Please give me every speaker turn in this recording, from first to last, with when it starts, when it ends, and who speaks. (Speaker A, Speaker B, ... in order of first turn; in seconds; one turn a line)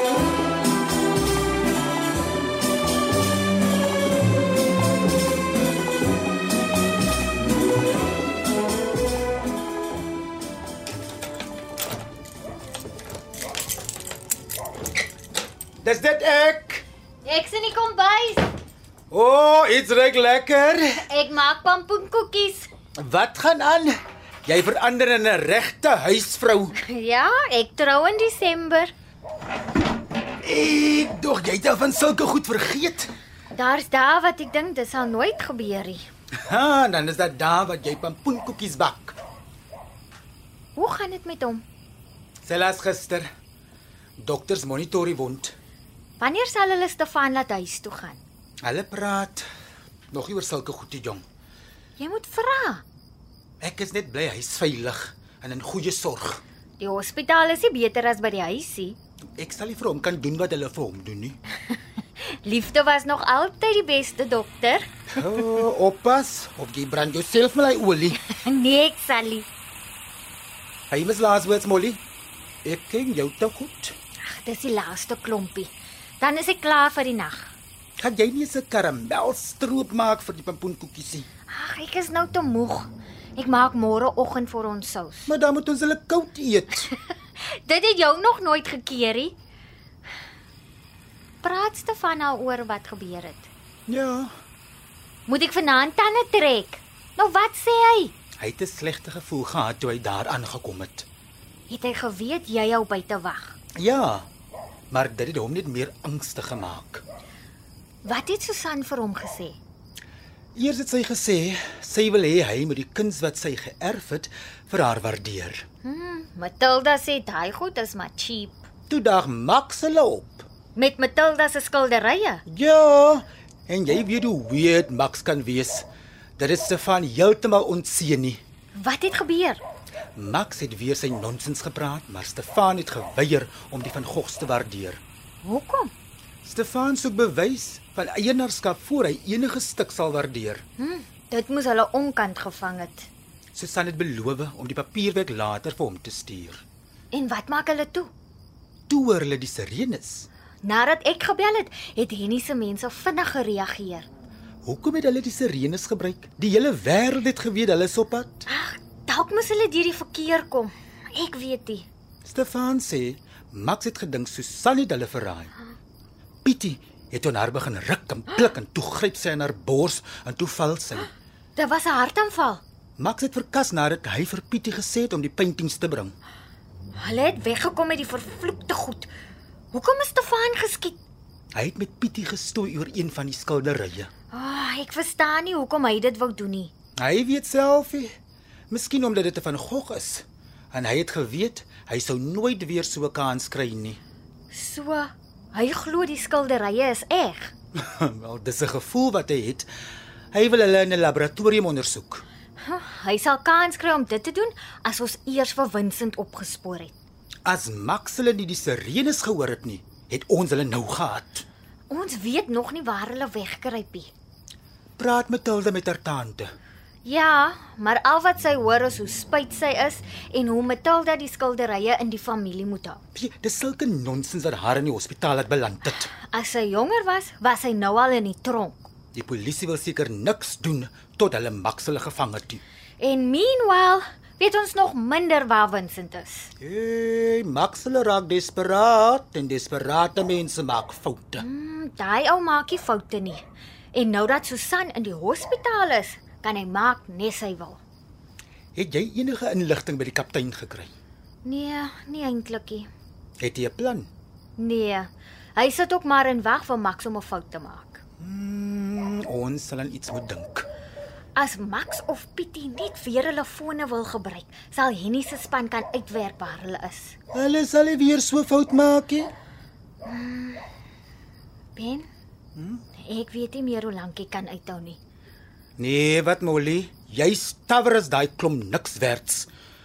Speaker A: 15.8-16.8
Speaker B: 17.2-18.5
Speaker A: 19.1-21.0
Speaker B: 21.1-22.7
Speaker A: 23.0-26.8
Speaker B: 26.8-28.9
Speaker A: 30.4-33.1
Speaker B: 33.5-36.0
Speaker A: 36.5-39.2
Speaker B: 40.8-41.6
Speaker A: 42.4-43.3
Speaker A: 44.2-45.5
Speaker B: 46.2-48.2
Speaker A: 48.6-49.5
Speaker A: 50.1-51.2
Speaker B: 52.0-52.8
Speaker A: 53.6-56.4
Speaker B: 56.8-59.0
Speaker A: 59.4-61.4
Speaker B: 62.4-64.8
Speaker A: 65.2-68.2
Speaker B: 68.2-69.5
Speaker A: 70.9-72.0
Speaker A: 72.6-74.0
Speaker B: 74.2-77.5
Speaker A: 78.0-81.3
Speaker B: 81.5-85.3
Speaker A: 85.3-86.9
Speaker B: 86.9-89.4
Speaker B: 91.4-93.5
Speaker A: 93.9-94.3
Speaker B: 95.3-98.1
Speaker A: 98.4-101.1
Speaker B: 101.7-103.6
Speaker A: 103.8-104.3
Speaker A: 104.9-107.0
Speaker B: 108.0-109.6
Speaker A: 110.5-115.6
Speaker B: 115.8-118.7
Speaker A: 118.9-120.4
Speaker B: 120.8-122.4
Speaker A: 122.5-125.8
Speaker A: 126.4-128.4
Speaker B: 128.8-129.6
Speaker A: 130.2-135.0
Speaker B: 135.4-135.9
Speaker A: 136.4-140.6
Speaker B: 140.8-143.1
Speaker A: 143.5-146.6
Speaker B: 147.1-148.1
Speaker A: 148.9-150.3
Speaker B: 150.6-154.1
Speaker A: 154.7-158.4
Speaker B: 158.5-161.8
Speaker A: 162.2-165.5
Speaker A: 166.4-171.1
Speaker B: 171.6-172.6
Speaker A: 173.0-176.2
Speaker B: 176.9-179.1
Speaker B: 179.7-181.0
Speaker A: 181.5-184.1
Speaker B: 184.3-186.7
Speaker A: 187.0-188.1
Speaker A: 188.7-194.0
Speaker B: 194.5-197.5
Speaker A: 197.8-199.7
Speaker A: 200.3-202.2
Speaker B: 202.6-206.9
Speaker A: 207.5-211.5
Speaker B: 211.9-214.1
Speaker A: 215.0-216.5
Speaker B: 217.0-223.0
Speaker A: 223.2-226.1
Speaker B: 226.1-228.9
Speaker A: 229.1-232.6
Speaker B: 233.0-236.5
Speaker A: 236.6-241.4
Speaker B: 241.4-247.8
Speaker A: 248.8-250.9
Speaker B: 251.4-252.9
Speaker A: 253.4-254.1
Speaker B: 254.6-258.0
Speaker A: 258.2-260.6
Speaker B: 261.4-267.1
Speaker A: 267.3-269.3
Speaker B: 270.0-270.6
Speaker B: 271.8-272.1
Speaker B: 273.0-275.0
Speaker A: 275.8-279.5